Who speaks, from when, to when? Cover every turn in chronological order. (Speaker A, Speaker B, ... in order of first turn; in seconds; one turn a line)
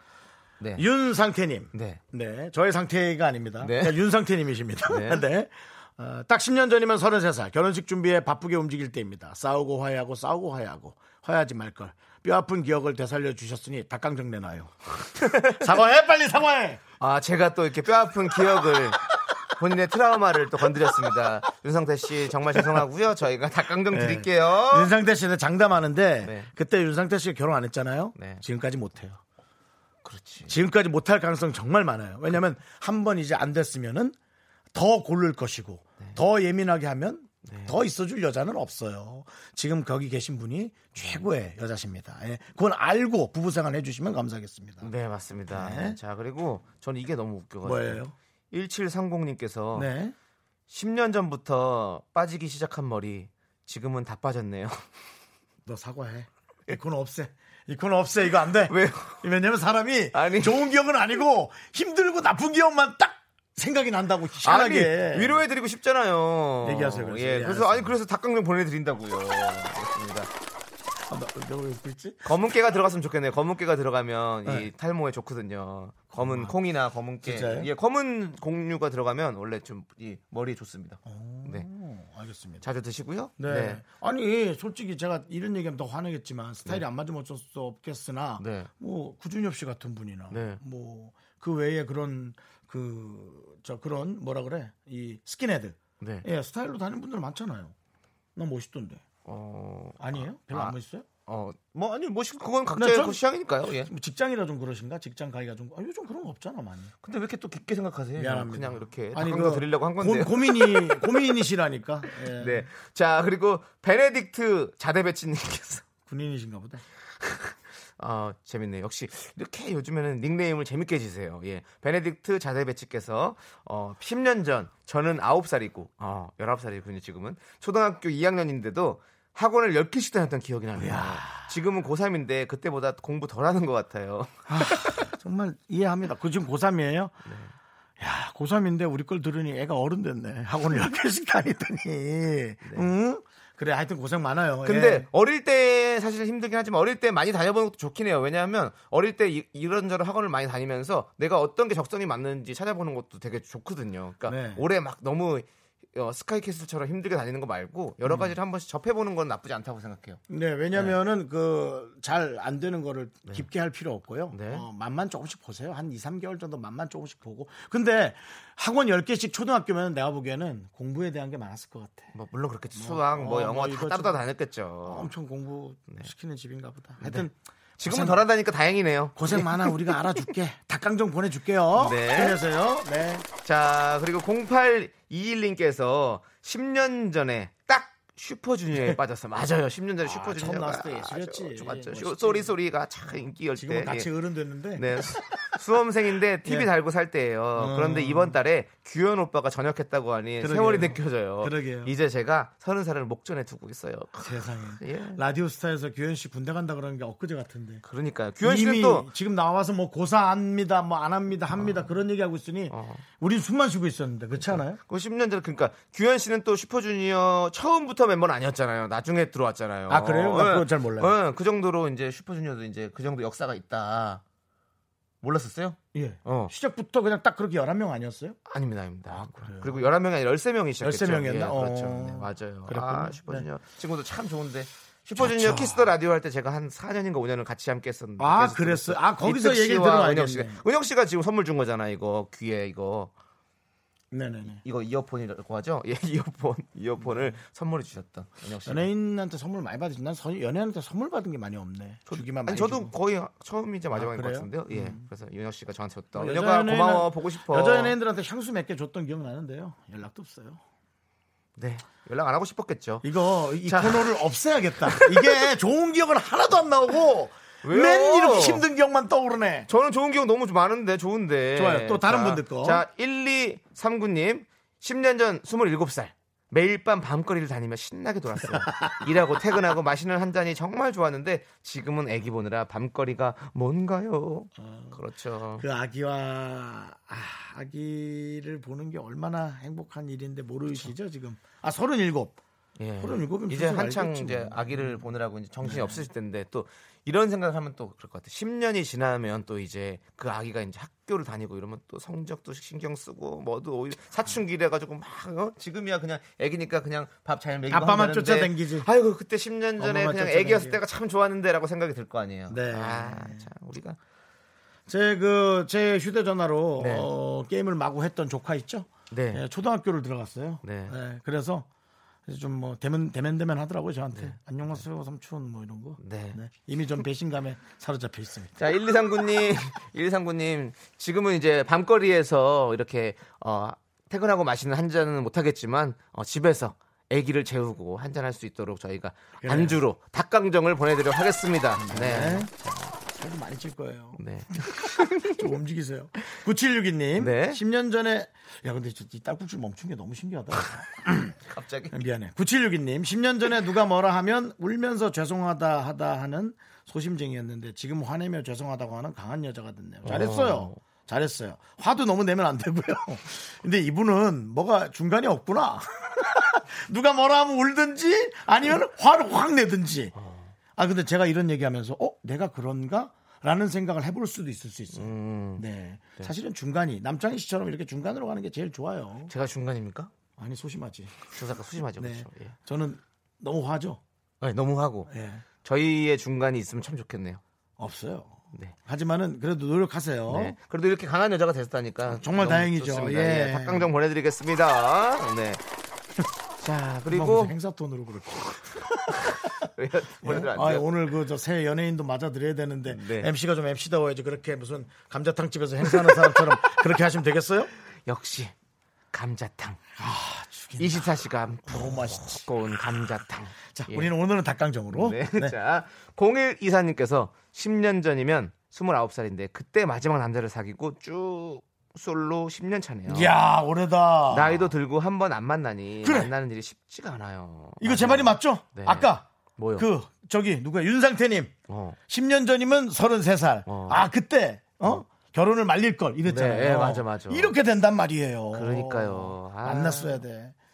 Speaker A: 0.8-16.8
Speaker B: 1.7-2.0
Speaker B: 3.6-4.0
Speaker B: 4.9-5.2
Speaker B: 17.0-19.0
Speaker B: 19.5-24.9
Speaker A: 23.9-29.2
Speaker B: 26.2-26.5
Speaker B: 28.1-28.4
Speaker B: 30.0-30.5
Speaker A: 30.5-34.1
Speaker A: 34.7-44.9
Speaker B: 37.4-37.8
Speaker B: 41.0-41.2
Speaker B: 44.8-49.9
Speaker A: 45.5-46.0
Speaker A: 47.6-48.1
Speaker A: 49.7-50.1
Speaker B: 50.7-54.8
Speaker A: 55.6-65.4
Speaker B: 58.7-59.2
Speaker B: 60.1-60.7
Speaker B: 64.4-70.3
Speaker A: 66.6-67.9
Speaker A: 71.1-72.3
Speaker B: 72.2-81.7
Speaker A: 76.1-76.5
Speaker A: 77.2-77.7
Speaker A: 81.0-82.6
Speaker B: 82.6-83.8
Speaker A: 83.4-97.7
Speaker B: 88.4-88.7
Speaker B: 90.3-90.6
Speaker B: 96.0-96.2
Speaker A: 98.3-99.0
Speaker B: 99.2-100.8
Speaker A: 100.0-101.1
Speaker B: 101.3-103.9
Speaker A: 102.7-106.9
Speaker B: 107.0-111.4
Speaker A: 108.2-112.7
Speaker B: 112.3-115.8
Speaker A: 116.0-116.8
Speaker B: 117.2-135.1
Speaker A: 130.8-131.5
Speaker A: 134.5-137.2
Speaker B: 137.2-137.5
Speaker A: 138.0-145.1
Speaker B: 142.6-142.9
Speaker B: 144.6-160.2
Speaker A: 154.3-154.6
Speaker A: 158.0-158.3
Speaker A: 160.3-172.1
Speaker B: 164.3-164.7
Speaker B: 172.1-175.1
Speaker A: 172.7-174.2
Speaker A: 174.8-178.2
Speaker B: 177.0-177.3
Speaker B: 177.8-180.0
Speaker A: 179.2-183.3
Speaker B: 181.8-182.4
Speaker B: 183.4-194.1
Speaker A: 190.0-192.5
Speaker A: 193.6-195.5
Speaker B: 194.8-205.2
Speaker A: 196.4-196.7
Speaker A: 197.6-198.4
Speaker A: 200.4-201.9
Speaker A: 204.2-207.8
Speaker B: 207.8-209.1
Speaker A: 208.4-214.8
Speaker B: 211.6-211.8
Speaker B: 212.7-213.0
Speaker B: 214.4-224.2
Speaker A: 219.9-221.1
Speaker B: 225.2-226.5
Speaker A: 225.9-228.4
Speaker B: 228.5-243.1
Speaker A: 229.1-229.9
Speaker A: 230.8-233.4
Speaker A: 235.2-235.9
Speaker A: 238.2-240.6
Speaker A: 244.1-244.6
Speaker B: 244.6-248.9
Speaker A: 247.0-247.3
Speaker A: 248.6-252.9
Speaker B: 252.1-257.9
Speaker A: 253.9-255.0
Speaker A: 256.1-260.6
Speaker B: 261.6-263.0
Speaker A: 263.0-269.7
Speaker B: 263.6-264.2
Speaker B: 264.9-265.4
Speaker B: 267.6-268.6
Speaker B: 269.7-285.6
Speaker A: 271.5-272.8
Speaker A: 284.6-285.0
Speaker A: 285.6-292.4
Speaker B: 292.8-314.0
Speaker A: 293.0-295.0
Speaker A: 295.6-296.0
Speaker A: 307.7-308.9
Speaker A: 309.8-310.8
Speaker A: 312.5-313.5
Speaker A: 314.9-321.7
Speaker B: 316.8-317.1
Speaker B: 319.1-319.4
Speaker B: 320.6-320.9
Speaker A: 322.2-328.6
Speaker B: 324.1-324.8
Speaker B: 326.0-326.4
Speaker B: 328.6-342.5
Speaker A: 339.4-339.8
Speaker A: 341.8-351.4
Speaker B: 344.2-345.4
Speaker B: 347.1-347.6
Speaker B: 351.5-351.9
Speaker A: 351.9-370.1
Speaker B: 360.1-360.8
Speaker B: 370.1-370.5
Speaker A: 370.8-379.3
Speaker B: 374.9-375.6
Speaker B: 379.3-380.1
Speaker A: 380.4-381.3
Speaker B: 381.3-382.5
Speaker A: 382.0-384.0
Speaker B: 384.4-385.1
Speaker A: 385.1-385.4
Speaker B: 385.6-387.4
Speaker A: 387.8-390.6
Speaker B: 390.3-395.6
Speaker A: 392.1-393.9
Speaker B: 396.6-397.5
Speaker A: 397.1-399.4
Speaker B: 399.2-400.9
Speaker A: 400.2-407.7
Speaker B: 402.9-403.3
Speaker B: 406.0-406.4
Speaker B: 408.1-408.5
Speaker B: 409.1-409.8
Speaker A: 410.0-413.1
Speaker B: 410.8-414.1
Speaker A: 413.7-415.5
Speaker B: 414.9-423.3
Speaker A: 423.1-424.7
Speaker B: 424.3-429.9
Speaker A: 426.0-426.3
Speaker A: 427.8-431.5
Speaker B: 431.7-432.0
Speaker A: 432.1-440.5
Speaker B: 433.7-434.0
Speaker B: 436.2-437.5
Speaker B: 438.5-440.2